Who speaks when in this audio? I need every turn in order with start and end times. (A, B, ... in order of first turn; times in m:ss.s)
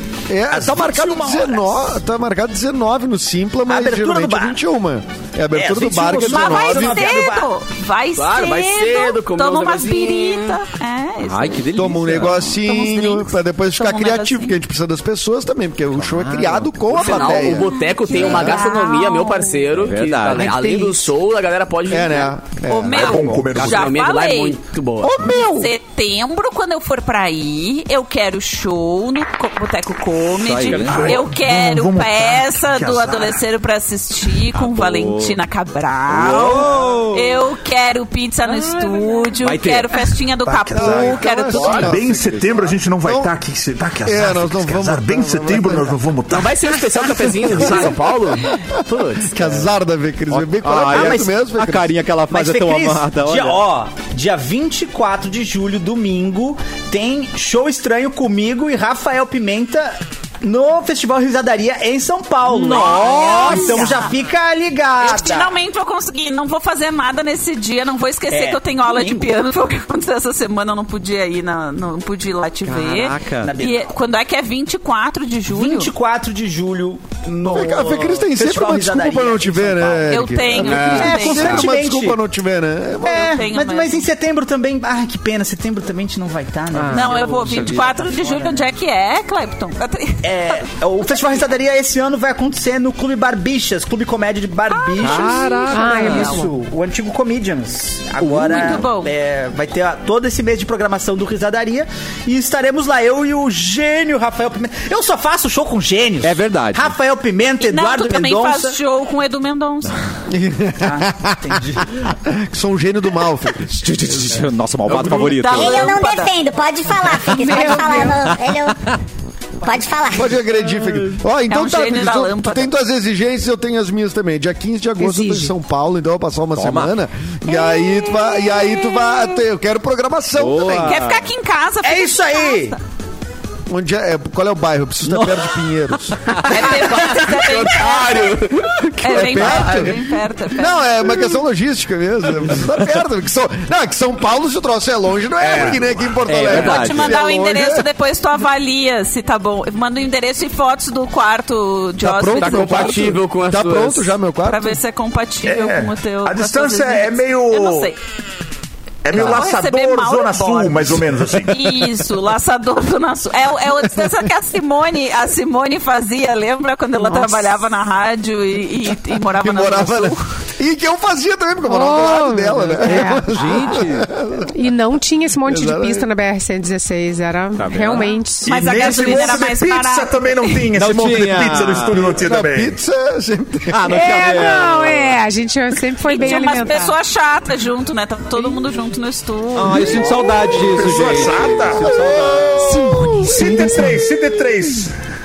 0:00.3-0:07.2 A
0:00.5-0:01.8 B
0:03.7-0:04.6 B
0:05.6-0:07.5 B
0:06.2-0:11.6 C
0:08.2-0:10.6 D
0:11.2-0:12.4 E
0:11.7-0:18.3 A
0:12.4-0:14.6 C
0:16.0-0:16.8 E
0:16.9-0:22.3 D
0:17.2-0:19.6 C
0:19.7-0:21.0 E
0:21.9-0:23.7 A
0:22.7-0:24.6 C
0:22.9-0:23.9 F
0:23.5-0:25.5 D
0:25.0-0:25.7 A
0:25.2-0:41.9 C
0:30.4-0:31.2 E
0:30.7-0:33.4 F
0:34.5-0:35.4 E
0:36.1-0:37.4 E
0:38.5-0:39.3 D
0:39.4-0:40.1 E
0:40.4-0:41.2 B
0:40.7-0:42.2 A
0:41.6-0:41.9 D
0:41.8-0:42.6 E
0:41.8-0:46.6 F
0:43.0-0:43.3 A
0:44.0-0:46.0 A
0:46.3-0:49.3 D
0:47.5-0:47.9 A
0:49.3-0:51.9 A
0:50.3-0:53.6 E
0:50.9-0:51.4 B
0:52.3-1:05.5 B
1:02.4-1:04.1 E
1:02.7-1:04.2 C
1:05.0-1:15.9 C
1:08.3-1:09.3 B
1:12.6-1:13.5 E
1:13.4-1:13.9 B
1:15.5-1:22.2 B
1:17.5-1:23.4 A
1:20.1-1:21.8 C
1:20.6-1:21.5 D
1:23.0-1:28.6 B
1:23.1-1:24.1 C
1:26.9-1:30.5 C
1:27.5-1:27.8 D
1:30.2-1:48.8 B
1:34.7-1:36.5 C
1:35.0-1:36.3 E
1:35.7-1:36.5 G
1:38.2-1:39.1 C
1:46.2-1:47.0 E
1:47.6-1:50.0 C
1:50.3-1:51.4 A
1:50.8-1:52.0 B
1:52.2-1:53.7 A
1:53.6-1:56.0 E
1:54.9-1:55.4 D
1:55.1-1:56.3 C
1:55.5-1:58.8 H
1:57.3-1:59.0 E
1:57.3-1:58.2 G
1:59.6-2:00.4 H
2:00.1-2:11.0 A
2:01.5-2:02.7 C
2:05.0-2:05.5 G
2:06.6-2:06.9 E
2:10.4-2:11.3 E
2:10.8-2:12.8 C
2:11.8-2:12.8 B
2:13.7-2:16.4 A
2:15.1-2:16.4 E
2:16.4-2:20.0 D
2:16.5-2:21.2 C
2:19.1-2:20.0 A
2:20.5-2:27.9 A
2:25.4-2:25.9 D
2:26.3-2:27.2 E
2:26.5-2:33.1 C
2:26.5-2:26.8 D
2:32.0-2:34.8 A
2:32.3-2:34.1 D
2:34.4-2:38.0 C
2:35.4-2:37.9 F
2:39.0-2:41.6 F
2:39.1-2:50.2 C
2:49.4-2:54.5 A
2:51.7-2:53.3 G
2:52.8-2:54.2 E
2:54.5-2:58.8 G
2:55.4-2:56.1 A
2:57.6-2:58.1 E
2:58.5-3:00.6 C
2:58.5-3:02.8 F
2:58.5-2:59.6 B
3:00.8-3:02.2 E
3:02.2-3:03.9 A
3:03.7-3:05.2 E
3:03.9-3:07.0 G
3:06.1-3:10.3 C
3:09.6-3:13.0 E
3:10.6-3:12.0 F
3:11.8-3:13.9 A
3:12.6-3:13.2 G
3:13.2-3:14.9 F